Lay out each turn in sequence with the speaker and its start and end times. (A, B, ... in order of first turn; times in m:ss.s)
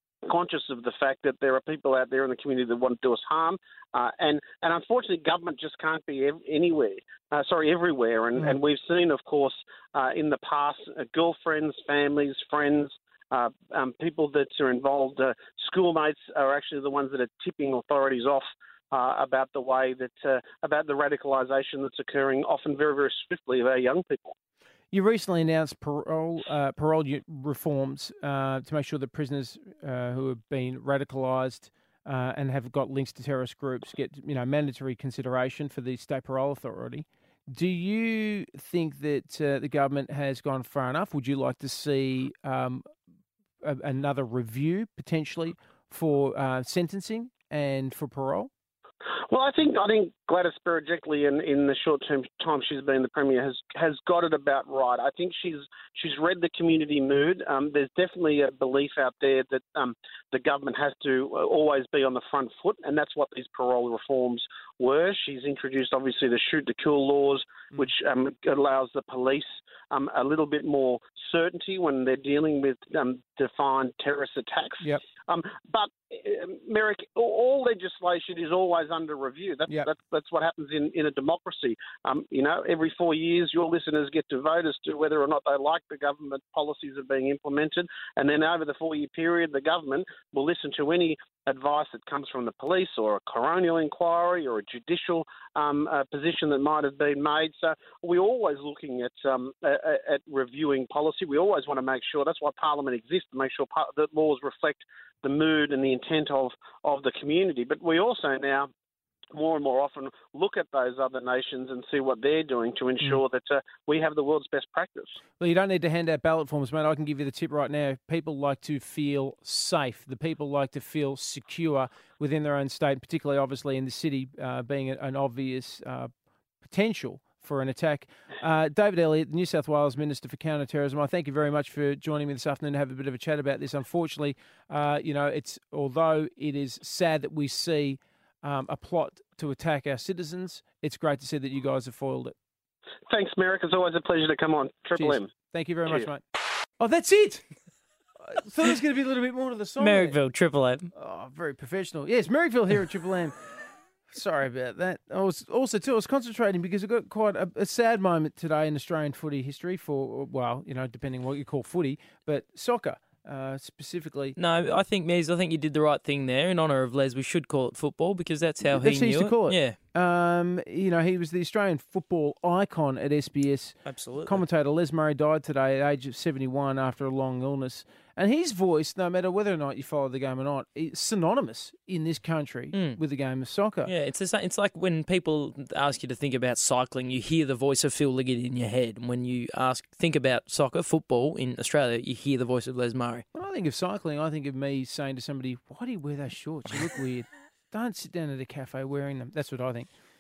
0:00.3-0:24.2 A
0:24.9-0:42.9 B
0:43.6-0:48.5 B
0:49.3-1:48.7 A
1:49.3-1:55.2 A
1:55.4-2:06.1 B
2:06.6-2:22.4 B
2:23.1-2:25.3 A
2:25.0-2:26.2 B
2:26.8-2:27.4 B
2:28.2-2:30.2 B
2:29.8-2:30.9 C
2:30.9-2:33.3 B
2:34.1-2:44.4 B
2:44.4-2:49.8 C
2:48.6-3:03.9 B
2:53.9-2:54.4 C
3:02.7-3:03.0 C
3:03.9-3:13.2 C
3:13.3-3:19.9 B